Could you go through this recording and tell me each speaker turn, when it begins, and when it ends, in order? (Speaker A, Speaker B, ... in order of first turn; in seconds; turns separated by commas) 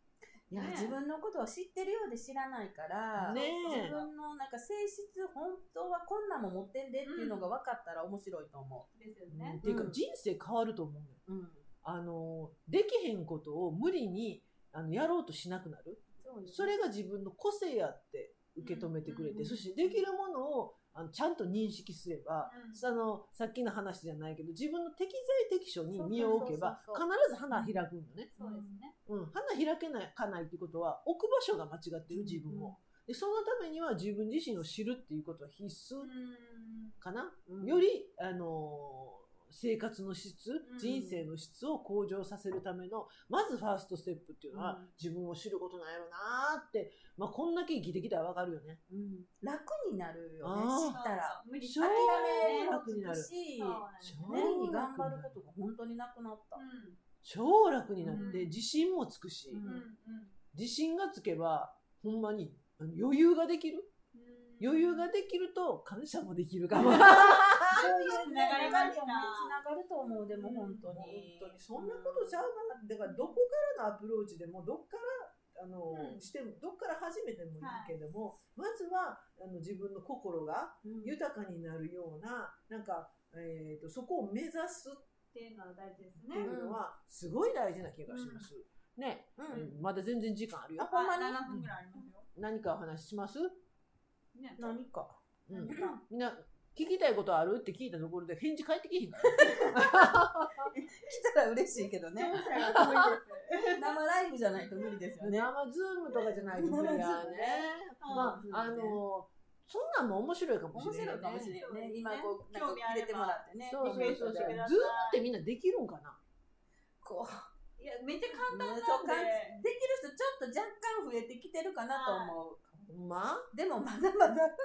Speaker A: 0.5-1.0, Speaker B: 0.5-8.9, Speaker C: 3.1-4.0, Speaker A: 3.3-4.1, Speaker A: 7.0-7.5, Speaker A: 8.9-9.6, Speaker C: 9.3-11.2, Speaker B: 9.6-10.0, Speaker B: 11.3-11.7, Speaker C: 11.8-28.3, Speaker B: 16.2-16.7, Speaker A: 18.6-19.7, Speaker B: 19.4-20.0, Speaker A: 22.4-22.8, Speaker B: 25.9-27.8, Speaker A: 26.1-26.5, Speaker A: 28.4-28.9, Speaker B: 28.4-28.8, Speaker C: 29.1-36.1, Speaker B: 32.1-32.8, Speaker A: 36.0-37.0, Speaker C: 37.0-48.8, Speaker B: 37.5-37.8, Speaker A: 40.6-41.1, Speaker B: 40.9-41.2, Speaker B: 44.5-44.9, Speaker B: 48.9-56.6, Speaker C: 50.4-51.0, Speaker A: 50.8-52.8, Speaker C: 51.6-53.3, Speaker A: 53.6-54.5, Speaker C: 54.0-55.4, Speaker A: 56.5-57.0, Speaker C: 57.2-59.6, Speaker B: 58.0-58.4, Speaker A: 58.1-58.5, Speaker B: 59.5-59.9, Speaker A: 59.6-60.4, Speaker C: 60.5-63.9, Speaker A: 64.1-65.1, Speaker C: 64.6-68.9, Speaker A: 66.7-69.6, Speaker B: 67.7-72.4, Speaker A: 70.3-70.9, Speaker C: 70.8-85.0, Speaker A: 75.9-76.3, Speaker A: 77.6-77.9, Speaker B: 80.8-81.2, Speaker A: 85.3-86.5, Speaker C: 86.2-90.9, Speaker B: 86.4-86.8, Speaker A: 88.1-88.5, Speaker B: 89.4-89.7, Speaker A: 89.5-89.8, Speaker B: 90.8-91.4, Speaker A: 90.9-92.3, Speaker C: 91.5-91.7, Speaker C: 92.3-93.6, Speaker A: 94.3-94.8, Speaker B: 94.6-96.0, Speaker C: 95.5-100.7, Speaker B: 99.2-102.9, Speaker A: 102.2-104.0, Speaker C: 102.7-103.2, Speaker B: 103.7-105.5, Speaker A: 104.5-105.1, Speaker C: 105.2-111.6, Speaker B: 106.1-109.0, Speaker A: 108.0-108.4, Speaker B: 110.7-114.6, Speaker A: 111.5-115.2, Speaker C: 113.7-116.2, Speaker B: 117.0-117.5, Speaker A: 117.8-119.6, Speaker B: 118.5-122.7, Speaker A: 121.9-122.4, Speaker C: 122.8-123.5, Speaker B: 123.5-124.5